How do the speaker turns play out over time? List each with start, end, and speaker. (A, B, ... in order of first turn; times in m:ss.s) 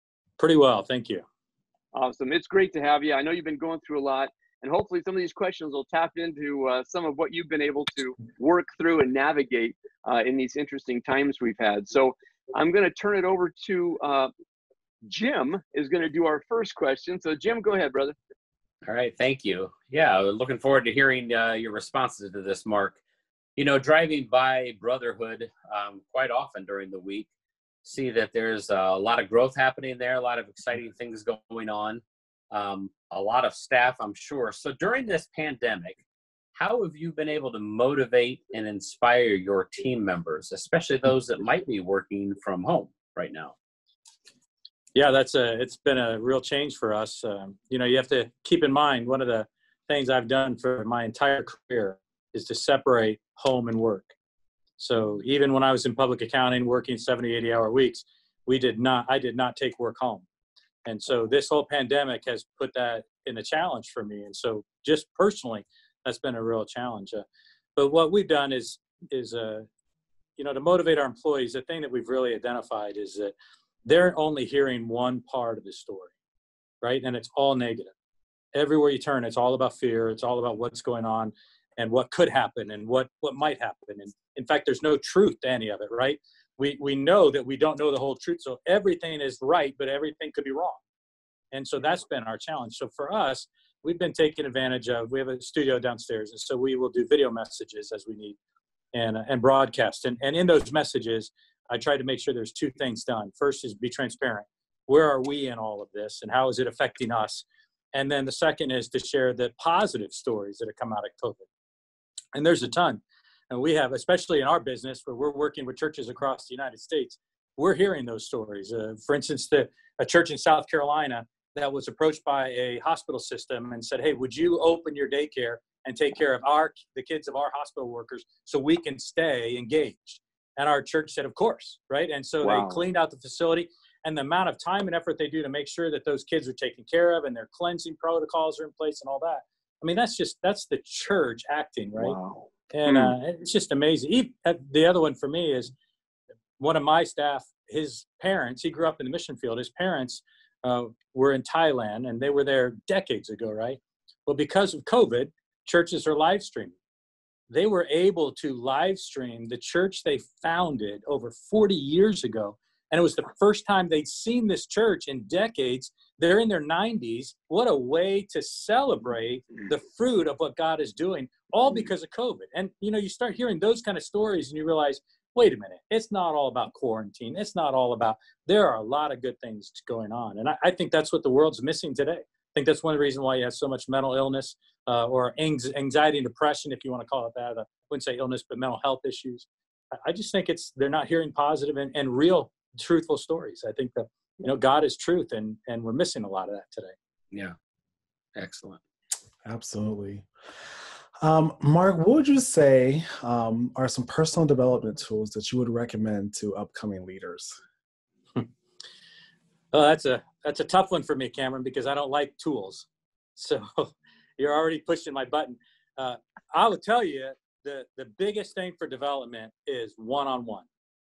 0:00.4-0:01.2 A
0:01.9-0:14.3 B
0:15.0-0:18.2 B
0:18.8-0:23.0 C
0:23.6-0:27.3 C
0:27.8-0:36.0 C
0:36.6-0:43.6 C
0:44.9-0:54.1 A
0:54.8-1:00.3 A
1:00.8-1:09.7 A
1:10.4-1:16.1 A
1:16.8-1:17.9 A
1:18.5-1:30.8 A
1:31.5-1:38.4 A
1:38.9-1:51.5 A
1:52.3-2:22.2 A
2:12.4-2:12.8 B
2:22.0-2:23.2 B
2:22.7-2:25.7 A
2:26.6-2:36.8 A
2:37.5-3:16.9 A
3:18.4-3:18.8 C
3:19.5-3:20.3 D
3:21.2-3:27.6 D
3:29.7-3:40.7 A